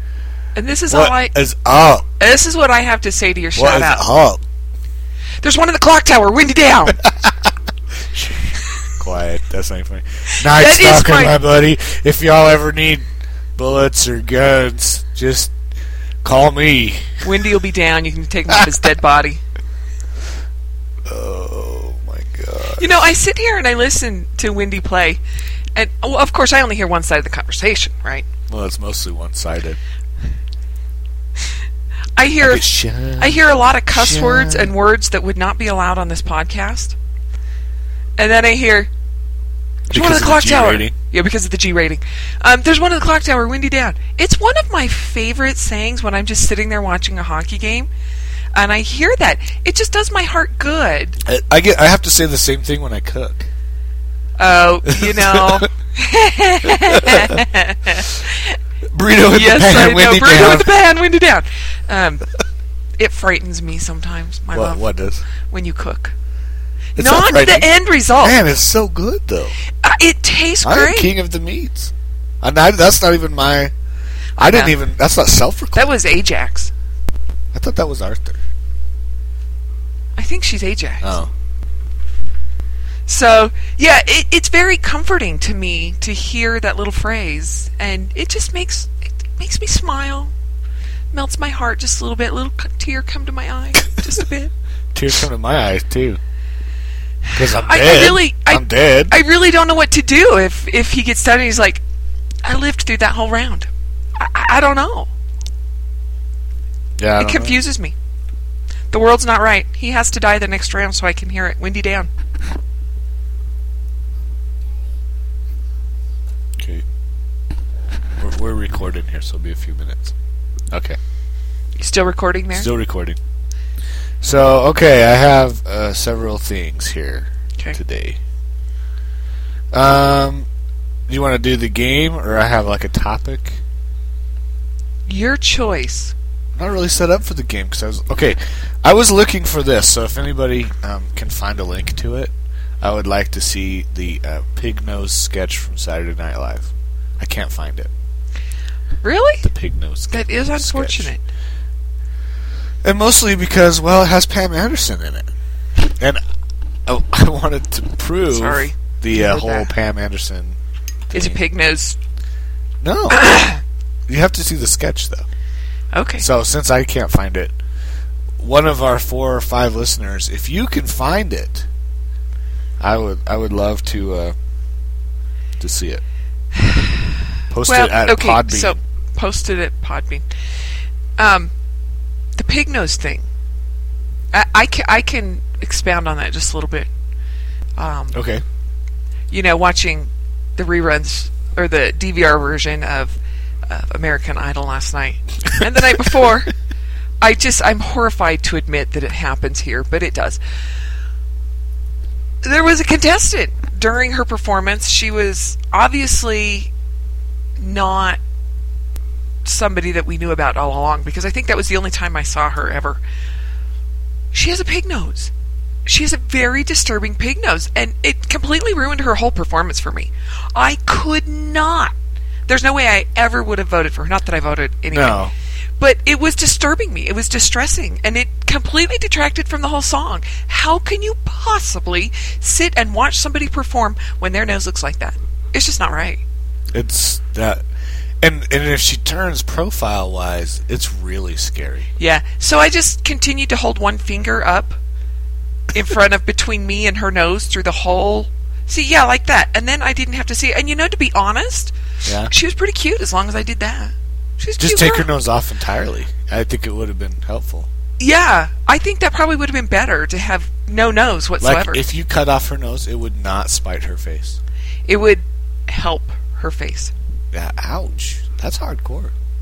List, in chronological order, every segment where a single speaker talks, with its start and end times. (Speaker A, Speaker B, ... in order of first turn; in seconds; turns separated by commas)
Speaker A: 0.5-1.3, Speaker B: 0.9-2.0, Speaker A: 2.2-4.0, Speaker B: 3.5-4.4, Speaker A: 5.4-7.0, Speaker B: 7.0-7.3, Speaker B: 8.1-13.0, Speaker A: 10.3-11.4, Speaker B: 13.6-15.5, Speaker B: 16.2-17.2, Speaker A: 17.2-19.4, Speaker B: 21.1-23.0, Speaker A: 22.8-25.2, Speaker A: 25.8-28.2, Speaker B: 28.5-29.8, Speaker A: 32.2-36.9, Speaker B: 32.4-34.7, Speaker A: 38.2-38.9, Speaker A: 39.9-47.9, Speaker B: 39.9-40.9, Speaker A: 48.5-51.2, Speaker B: 51.2-53.5, Speaker A: 54.4-58.6, Speaker B: 54.9-55.7, Speaker B: 56.6-57.4, Speaker B: 58.9-60.7, Speaker A: 59.3-62.3, Speaker A: 63.0-66.1, Speaker B: 64.5-65.2, Speaker A: 67.0-68.4, Speaker B: 67.0-69.5, Speaker A: 69.8-71.1, Speaker B: 70.6-73.7, Speaker B: 74.4-75.9, Speaker A: 74.4-74.8, Speaker A: 75.7-76.7, Speaker B: 77.5-78.4, Speaker A: 80.2-81.2, Speaker B: 81.0-81.3, Speaker A: 83.1-90.3, Speaker A: 91.1-94.5, Speaker B: 94.9-96.2, Speaker A: 97.2-101.8, Speaker B: 97.3-99.1, Speaker A: 102.4-105.1, Speaker B: 107.0-107.6, Speaker A: 107.2-107.9, Speaker A: 108.9-112.1, Speaker B: 116.6-116.8, Speaker B: 118.2-120.1, Speaker B: 120.7-121.0, Speaker A: 121.8-122.7, Speaker B: 122.5-123.2, Speaker B: 124.2-128.2, Speaker B: 129.7-130.4, Speaker B: 131.1-133.6, Speaker A: 135.1-136.1, Speaker B: 136.6-147.9, Speaker A: 149.0-149.4, Speaker B: 149.4-151.1, Speaker A: 150.1-151.2, Speaker B: 152.8-155.3, Speaker B: 156.8-160.6, Speaker A: 158.3-159.7, Speaker B: 161.1-161.4, Speaker A: 161.1-162.0, Speaker B: 162.8-163.4, Speaker A: 163.1-163.6, Speaker B: 164.1-165.2, Speaker A: 165.9-166.2, Speaker B: 166.2-167.6, Speaker B: 168.4-171.7, Speaker B: 172.8-174.3, Speaker B: 175.6-176.0, Speaker A: 176.5-180.2, Speaker B: 177.5-178.8, Speaker A: 181.2-181.5, Speaker A: 182.4-183.2, Speaker A: 184.3-186.9, Speaker A: 187.8-188.2, Speaker B: 188.1-188.4, Speaker A: 189.3-193.1, Speaker A: 193.7-196.5, Speaker A: 197.2-200.4, Speaker A: 202.4-206.7, Speaker A: 207.6-208.2, Speaker A: 209.4-213.0, Speaker A: 214.3-215.3, Speaker A: 215.8-221.9, Speaker A: 222.5-225.2, Speaker B: 224.9-225.3, Speaker A: 225.8-236.2, Speaker B: 236.7-237.6, Speaker B: 238.2-241.9, Speaker A: 242.0-244.8, Speaker A: 245.7-251.7, Speaker B: 252.0-252.3, Speaker A: 252.2-255.1, Speaker B: 254.6-257.7, Speaker A: 258.0-261.8, Speaker B: 261.4-264.4, Speaker A: 264.9-266.9, Speaker B: 267.3-269.1